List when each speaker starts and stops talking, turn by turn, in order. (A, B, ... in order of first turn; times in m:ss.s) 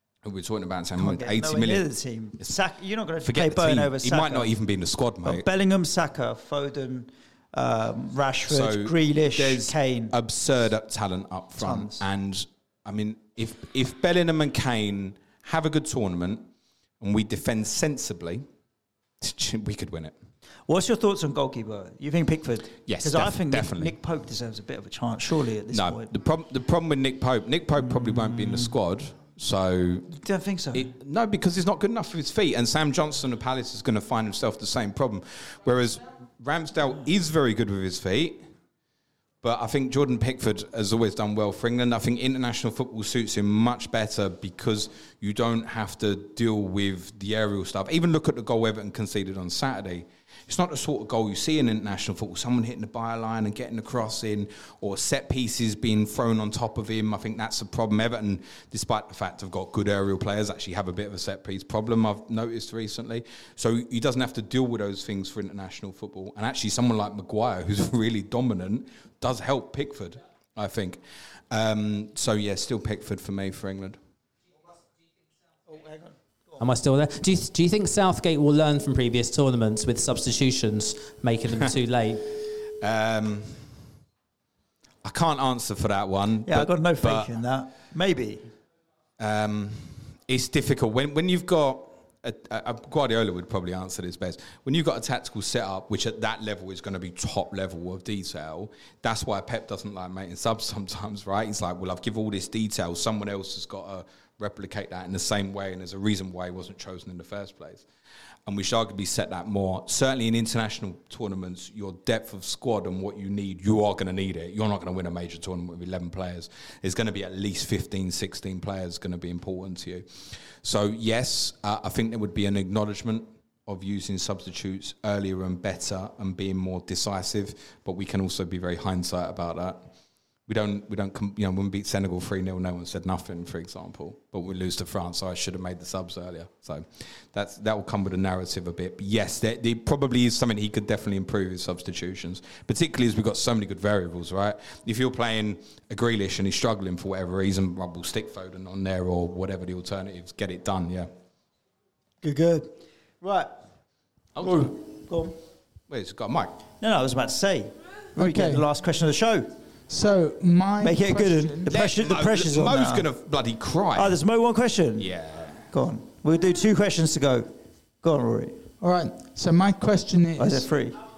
0:00.2-0:01.9 A
0:01.0-0:04.5 B
0:03.2-0:05.4 A
0:05.2-0:10.1 B
0:08.5-0:16.5 A
0:11.6-0:12.0 B
0:17.0-0:18.4 A
0:19.2-0:20.1 A
0:20.7-0:26.1 B
0:22.9-0:23.9 A
0:25.7-0:30.2 A
0:27.8-0:28.7 B
0:30.2-0:30.9 B
0:30.7-0:38.4 A
0:39.4-1:14.0 A
1:15.7-1:16.6 B
1:16.6-1:22.2 C
1:22.8-1:23.8 A
1:25.0-1:27.3 A
1:26.5-1:28.5 B
1:29.2-1:47.8 A
1:48.5-2:09.8 A
2:10.5-2:31.1 A
2:32.2-2:33.6 B
2:34.3-2:34.7 A
2:34.4-2:35.4 B
2:35.9-2:36.5 A
2:36.8-2:39.5 B
2:38.2-2:38.7 D
2:39.9-2:41.7 D
2:40.8-2:43.0 B
2:41.7-2:44.2 A
2:43.9-2:45.1 B
2:45.0-2:45.7 A
2:45.7-2:48.6 B
2:48.8-2:50.8 D
2:50.4-2:51.0 B